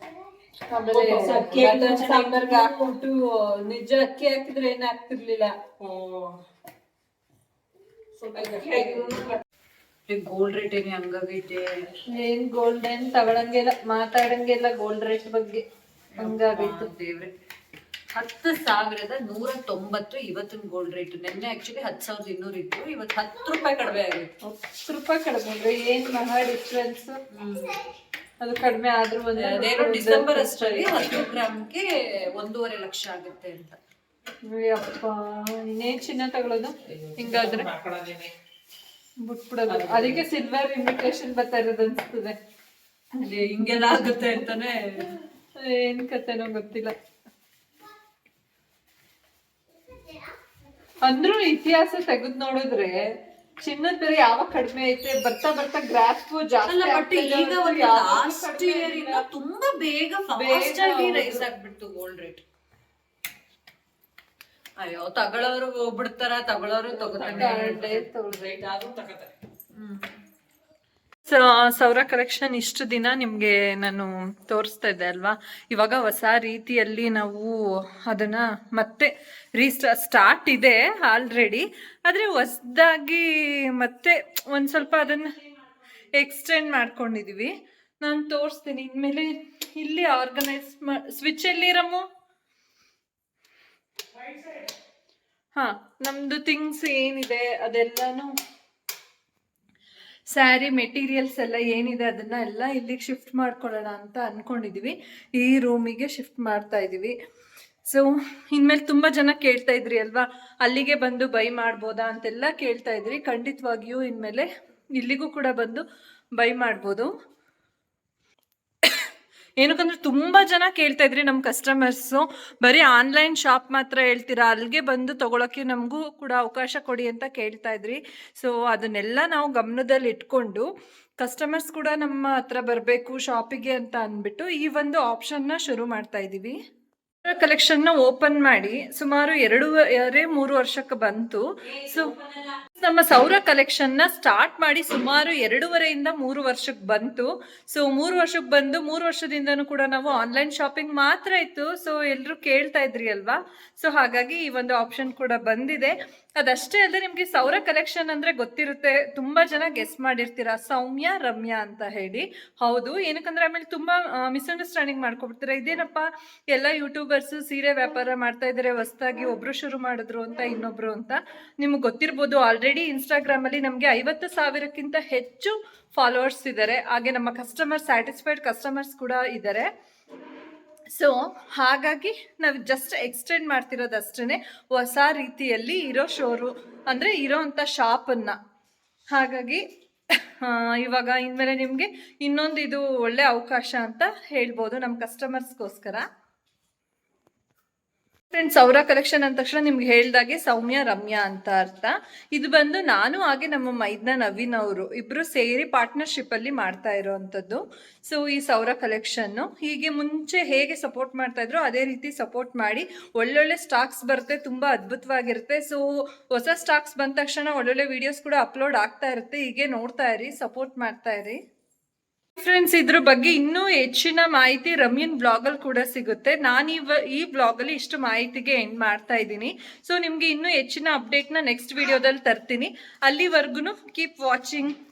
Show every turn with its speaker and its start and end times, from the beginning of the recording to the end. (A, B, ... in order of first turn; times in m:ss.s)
0:00.7-0:05.6 A
0:00.9-0:02.9 B
0:05.8-0:06.4 C
0:08.2-0:09.4 B
0:08.3-0:09.4 C
0:10.1-0:11.9 B
0:12.1-0:15.6 A
0:16.1-0:17.4 B
0:16.2-0:16.9 A
0:18.1-0:24.3 B
0:24.4-0:27.2 A
0:27.3-0:27.8 B
0:28.4-0:31.3 A
0:29.4-0:33.8 B
0:34.5-0:37.7 A
0:37.0-0:38.3 C
0:39.2-0:42.4 A
0:39.7-0:40.2 C
0:43.2-0:45.1 B
0:43.9-0:44.4 A
0:45.6-0:46.9 A
0:51.0-0:53.0 A
0:53.6-0:59.3 A
0:56.7-1:02.4 B
1:00.3-1:01.5 A
1:04.8-1:08.0 B
1:06.9-1:09.3 C
1:07.3-1:08.6 A
1:09.8-1:10.1 B
1:11.3-1:25.3 A
1:26.1-1:32.0 A
1:35.5-1:38.3 A
1:40.3-1:47.1 A
1:47.9-1:55.8 A
1:56.4-1:57.1 A
1:59.6-2:10.7 A
2:11.2-2:16.6 A
2:17.2-2:22.1 A
2:21.6-2:22.6 B
2:22.8-2:59.7 A
3:00.9-3:08.4 A
3:09.1-3:09.6 A
3:10.4-3:16.0 A
3:18.3-3:41.4 A
3:42.4-3:54.7 A